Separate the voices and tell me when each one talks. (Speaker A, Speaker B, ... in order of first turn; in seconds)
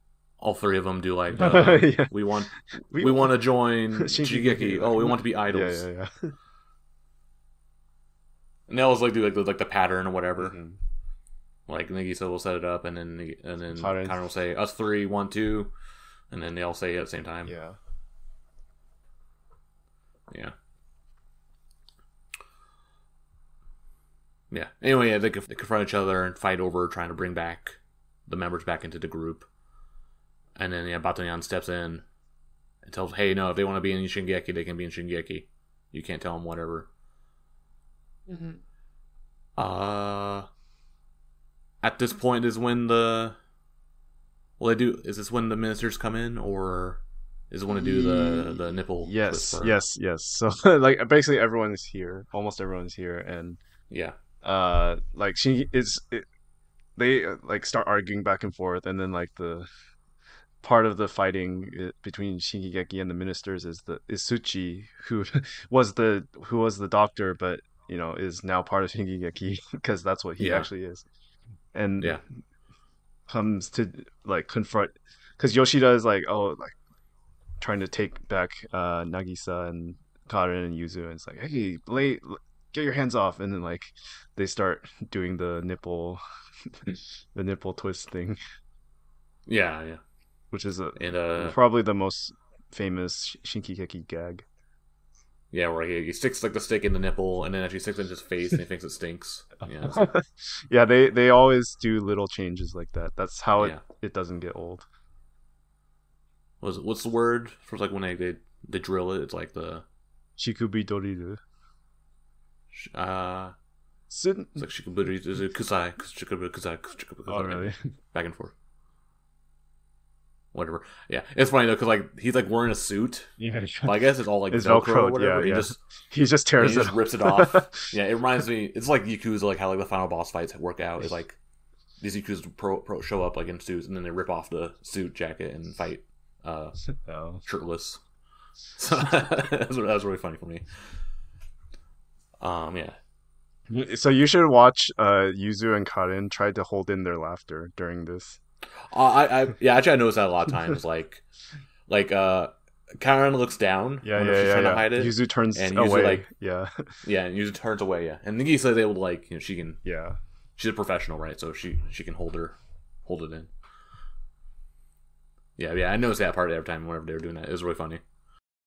Speaker A: 0.4-5.8, 8.7-10.6, 11.7-15.7, 16.3-17.5, 24.5-29.5, 30.6-32.0, 32.8-36.9, 39.6-40.5, 41.8-43.4, 44.6-49.7, 53.9-54.1, 70.4-70.7, 89.5-90.0, 90.9-91.6, 95.5-100.0, 103.5-103.8, 106.6-109.8, 112.7-113.5, 114.6-118.5, 120.5-123.3, 123.8-125.8, 126.6-131.4, 132.0-136.8, 137.4-138.0, 138.8-140.7, 142.4-143.0, 148.9-151.2, 151.9-156.2, 157.0-159.8, 160.6-163.5, 165.6-168.0
Speaker B: 1.3-2.1, 2.9-3.3, 3.9-6.3, 10.4-10.8, 13.8-14.2, 17.4-17.8, 38.3-38.6, 47.7-53.6, 54.4-56.3, 57.0-59.7, 60.6-71.0, 71.7-72.4, 73.3-76.7, 77.6-88.4, 90.5-94.4, 99.8-104.9, 110.4-111.4, 114.1-114.7, 117.3-117.9, 123.4-123.9, 124.5-127.8, 137.0-137.4, 143.7-148.4, 154.0-156.9, 159.8-160.2